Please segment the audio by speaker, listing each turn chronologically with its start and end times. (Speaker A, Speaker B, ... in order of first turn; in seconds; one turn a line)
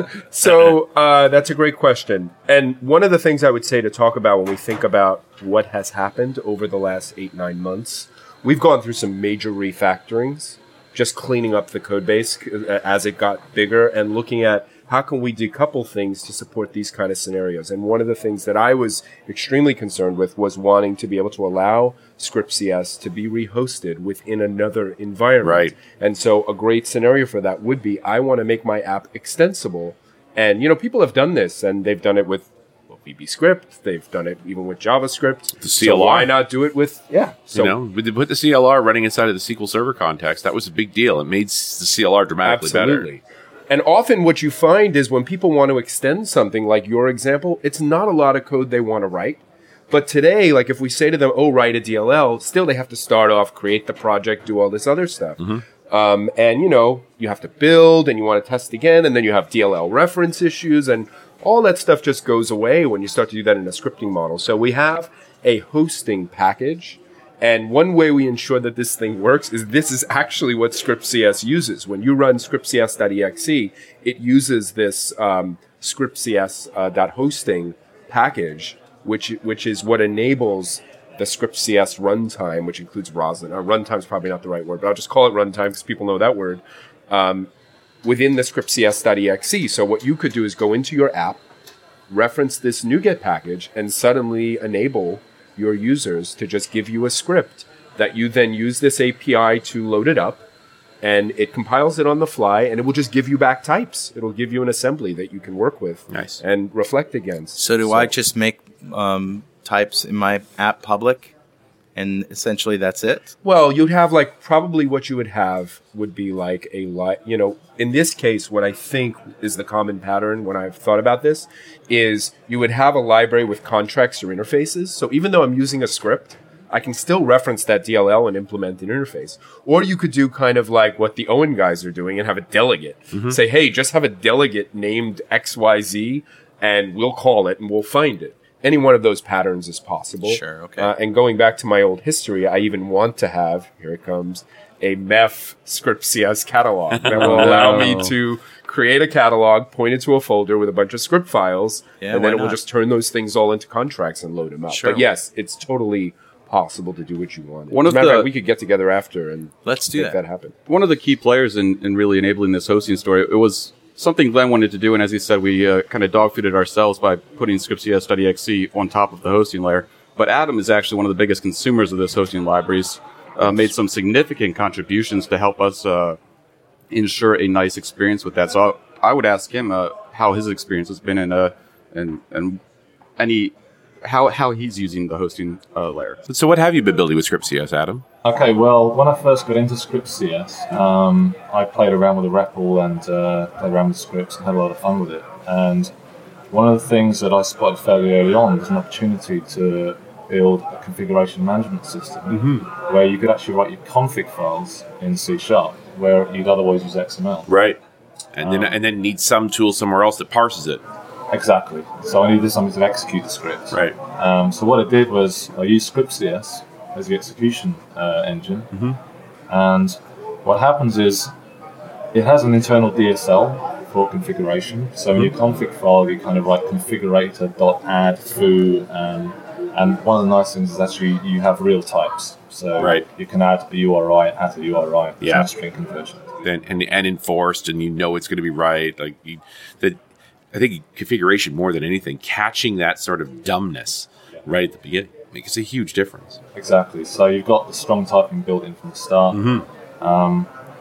Speaker A: 0.2-37.7
Speaker B: 25.4-25.7
Speaker B: 35.6-36.3
Speaker B: 37.5-43.1
Speaker A: 42.4-87.5
Speaker A: 88.0-91.4
Speaker A: 92.1-100.4
Speaker A: 101.0-108.1
Speaker B: 106.1-106.4
Speaker C: 107.5-111.3
Speaker C: 111.9-113.3
Speaker A: 113.4-160.6
Speaker C: 140.2-140.9
Speaker B: 147.0-147.9
Speaker D: 147.2-148.1
Speaker C: 152.0-152.6
Speaker C: 154.7-155.1
Speaker D: 157.7-158.3
Speaker C: 159.6-160.2
Speaker D: 160.7-176.2
Speaker D: 176.9-182.6
Speaker D: 183.2-186.2
Speaker B: 186.3-188.0
Speaker E: 188.2-195.9
Speaker E: 196.5-207.5
Speaker B: 202.3-202.7
Speaker B: 207.5-207.8
Speaker B: 208.3-210.8
Speaker E: 208.4-208.8
Speaker E: 211.3-218.8
Speaker B: 213.7-213.9
Speaker B: 218.7-219.0
Speaker E: 219.5-221.3
Speaker E: 222.1-236.3
Speaker B: 232.8-233.0
Speaker B: 235.2-235.5
Speaker B: 236.4-240.0
Speaker B: 240.5-246.4
Speaker E: 246.5-250.5
Speaker B: 249.3-249.7